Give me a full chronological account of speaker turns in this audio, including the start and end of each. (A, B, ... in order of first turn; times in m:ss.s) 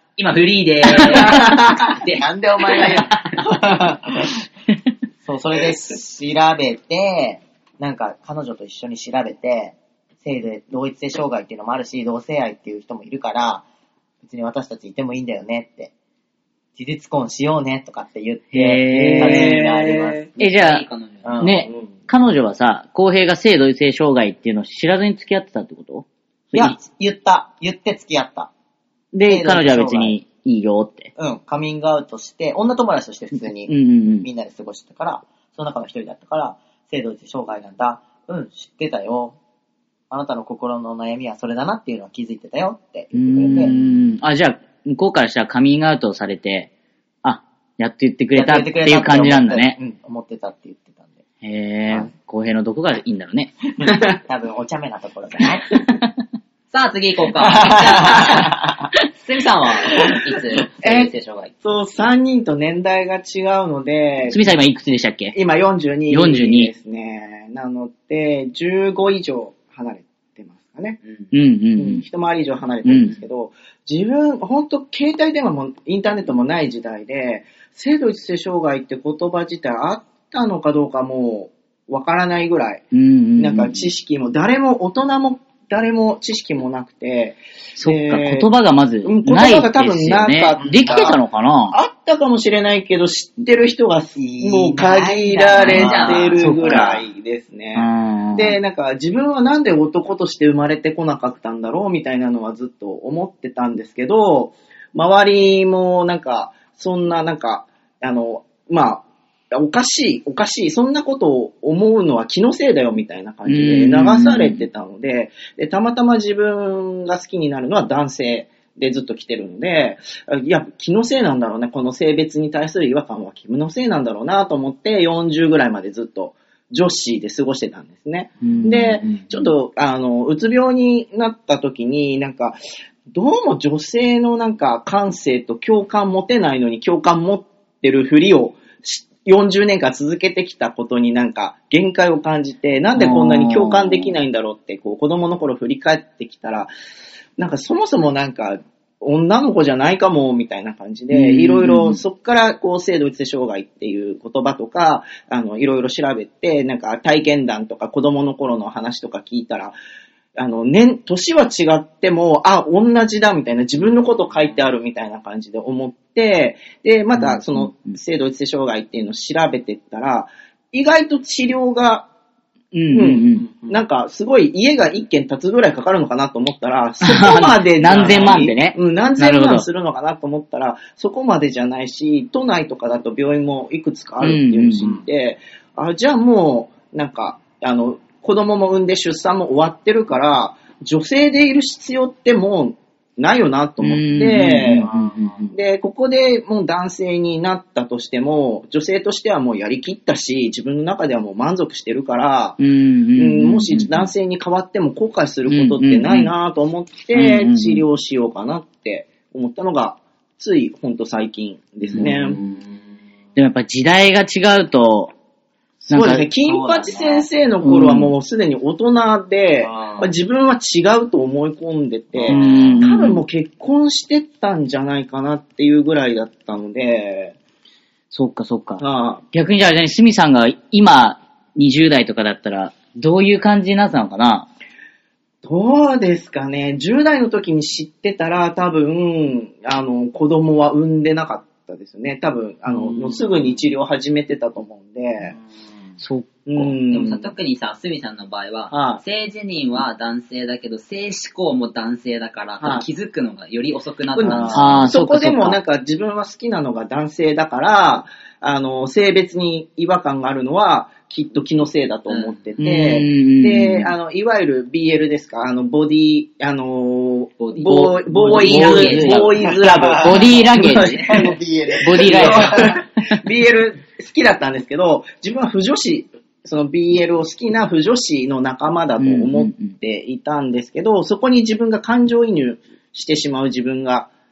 0:00.2-0:03.1 A
0:01.1-0:01.9 B
0:01.3-0:04.4 C
0:05.2-0:13.6 C
0:14.2-0:15.9 C
0:16.8-0:20.3 C
0:18.5-0:19.7 D
0:19.1-0:20.3 B
0:20.4-0:21.5 A
0:20.4-0:20.8 D
0:21.2-0:21.7 C
0:21.4-0:26.8 D
0:26.5-0:28.5 C
0:29.1-0:31.1 D
0:29.2-0:30.2 C
0:31.2-0:39.4 C
0:33.7-0:34.3 D
0:40.1-0:43.8 C
0:43.1-0:46.7 D
0:47.2-0:49.8 D
0:48.4-0:51.2 C
0:51.4-0:53.5 D
0:53.8-0:55.7 C
0:56.7-0:58.5 A
0:57.4-0:58.8 C
0:59.1-1:01.5 A
1:00.8-1:04.5 B
1:04.3-1:05.4 D
1:05.3-1:11.0 B
1:06.1-1:06.7 D
1:11.3-1:12.0 D
1:11.8-1:22.9 B
1:12.8-1:13.2 D
1:22.9-1:23.9 D
1:23.4-1:28.5 B
1:27.8-1:31.8 D
1:29.0-1:31.2 B
1:30.6-1:31.1 C
1:31.7-2:26.7 B
1:34.2-1:36.8 C
1:35.6-1:36.4 A
1:36.4-1:37.0 D
1:37.8-1:38.6 D
1:53.5-1:54.7 D
2:08.4-2:09.5 D
2:23.0-2:24.1 D
2:27.4-2:39.8 B
2:31.1-2:32.0 D
2:40.4-2:52.1 B
2:47.1-2:48.0 D
2:52.7-2:53.5 D
2:52.9-3:14.9 B
2:57.0-2:59.7 D
3:04.2-3:04.9 D
3:13.8-3:15.5 D
3:14.8-3:15.5 C
3:15.5-3:22.6 B
3:22.6-3:24.1 D
3:23.2-3:32.4 B
3:25.5-3:26.3 D
3:27.1-3:27.8 D
3:31.9-3:32.5 D
3:32.0-3:32.6 C
3:33.4-3:35.1 D
3:35.9-3:47.4 B
3:35.9-3:36.2 D
3:36.4-3:37.3 C
3:37.6-3:38.1 D
3:39.6-3:40.1 C
3:42.1-3:42.8 C
3:42.3-3:43.2 D
3:48.1-3:54.5 D
3:48.8-3:49.2 B
3:55.4-4:05.4 B
4:06.0-4:06.8 D
4:06.5-4:07.3 B
4:06.9-4:14.8 A
4:08.7-4:09.0 B
4:12.6-4:12.9 B
4:14.1-4:31.4 B
4:14.3-4:14.6 C
4:14.5-4:15.6 D
4:22.1-4:22.4 A
4:22.6-4:24.0 D
4:27.4-4:29.4 A
4:27.7-4:32.8 D
4:29.6-4:32.8 C
4:31.9-4:44.1 B
4:39.0-4:39.7 D